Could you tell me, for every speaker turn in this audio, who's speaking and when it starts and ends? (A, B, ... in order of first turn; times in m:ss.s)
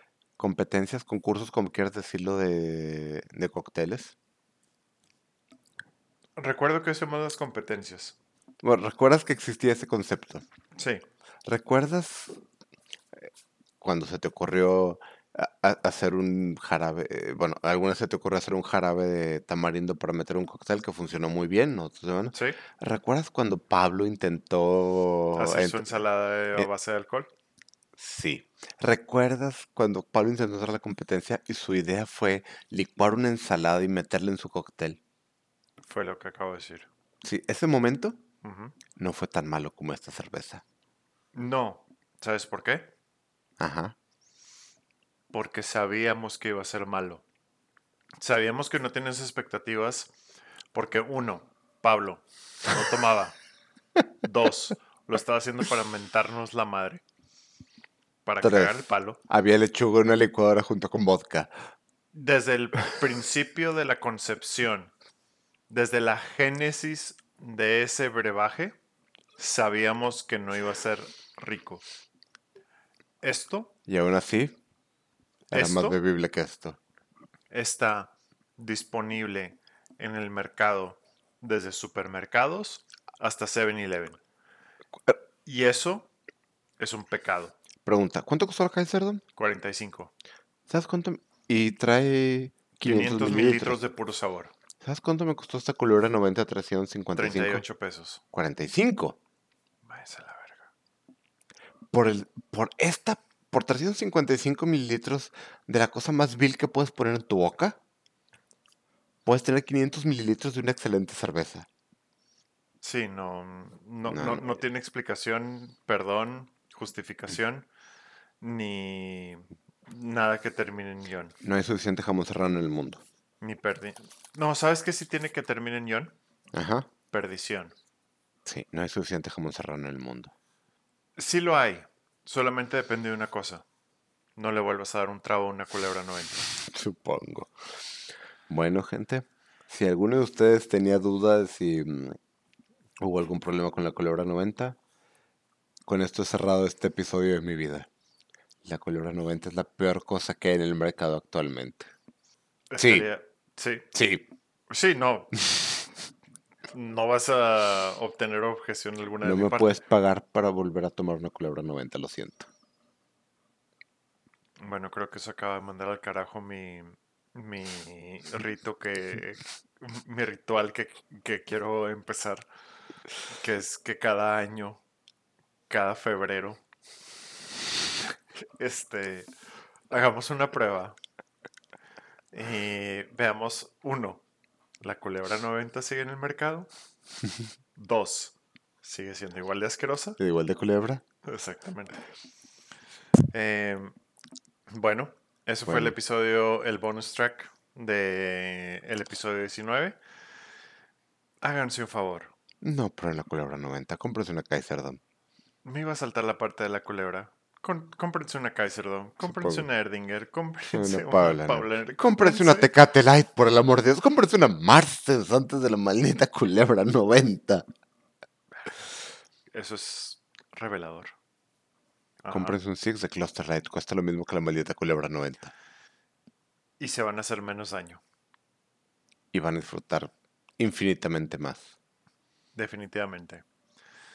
0:00.4-0:04.2 A
0:06.4-0:08.2 B
0:08.6-0:10.4 A
0:10.8-0:11.0 B
0:11.5-0:12.4 A
0:13.8-0:26.7 A
0:22.3-0:22.6 B
0:25.4-0:27.3 B
0:28.0-0:35.0 A
0:35.8-0:36.9 B
0:37.2-0:38.2 A
0:38.4-0:38.8 B
0:39.0-0:40.6 A
0:41.4-0:42.9 B
0:43.6-0:44.0 A
0:45.3-0:47.2 B
0:48.2-0:50.1 B
0:50.7-0:53.4 B
0:54.2-0:57.0 B
0:58.2-0:59.2 B
0:58.4-0:58.8 A
0:59.3-1:01.5 A
1:02.1-1:04.9 B
1:05.7-1:08.8 B
1:09.4-1:11.8 B
1:13.2-1:13.7 B
1:13.9-1:14.6 A
1:15.5-1:16.0 B
1:15.5-1:16.8 A
1:17.5-1:24.2 B
1:25.5-1:26.1 B
1:26.8-1:27.6 B
1:27.9-1:29.2 A
1:29.4-1:30.1 B
1:30.7-1:33.8 A
1:32.8-1:34.5 B
1:34.8-1:37.6 A
1:37.2-1:38.2 B
1:38.3-1:39.2 A
1:39.8-1:40.7 B
1:41.9-1:47.8 A
1:49.3-1:51.7 A
1:52.8-1:57.7 B
1:54.1-1:54.6 A
1:58.4-2:01.3 B
2:01.4-2:03.0 A
2:03.4-2:06.2 B
2:06.5-2:06.9 A
2:07.1-2:07.7 B
2:08.5-2:10.3 A
2:11.2-2:13.6 B
2:14.4-2:16.5 B
2:16.6-2:17.5 A
2:18.5-2:22.2 A
2:23.0-2:24.8 A
2:25.9-2:27.9 A
2:28.6-2:31.9 A
2:32.7-2:33.9 B
2:32.8-2:33.1 A
2:33.9-2:34.3 A
2:34.7-2:35.5 B
2:36.7-2:39.8 B
2:39.2-2:42.5 A
2:44.6-2:52.4 B
2:53.4-2:54.8 B
2:55.7-2:56.6 B
2:58.6-2:59.3 B
2:59.9-3:01.0 B
3:02.3-3:04.2 B
3:04.8-3:06.7 B
3:07.8-3:10.2 B
3:10.2-3:11.0 A
3:11.2-3:12.0 B
3:13.3-3:13.9 B
3:14.7-3:20.0 B
3:15.6-3:16.0 A
3:21.4-3:22.3 B
3:22.6-3:25.0 A
3:25.6-3:32.7 B
3:29.2-3:29.7 A
3:30.7-3:37.6 A
3:39.5-3:41.1 B
3:42.2-3:42.6 B
3:42.3-3:45.5 A
3:46.8-3:48.0 B
3:49.3-3:51.7 A
3:52.6-3:53.4 B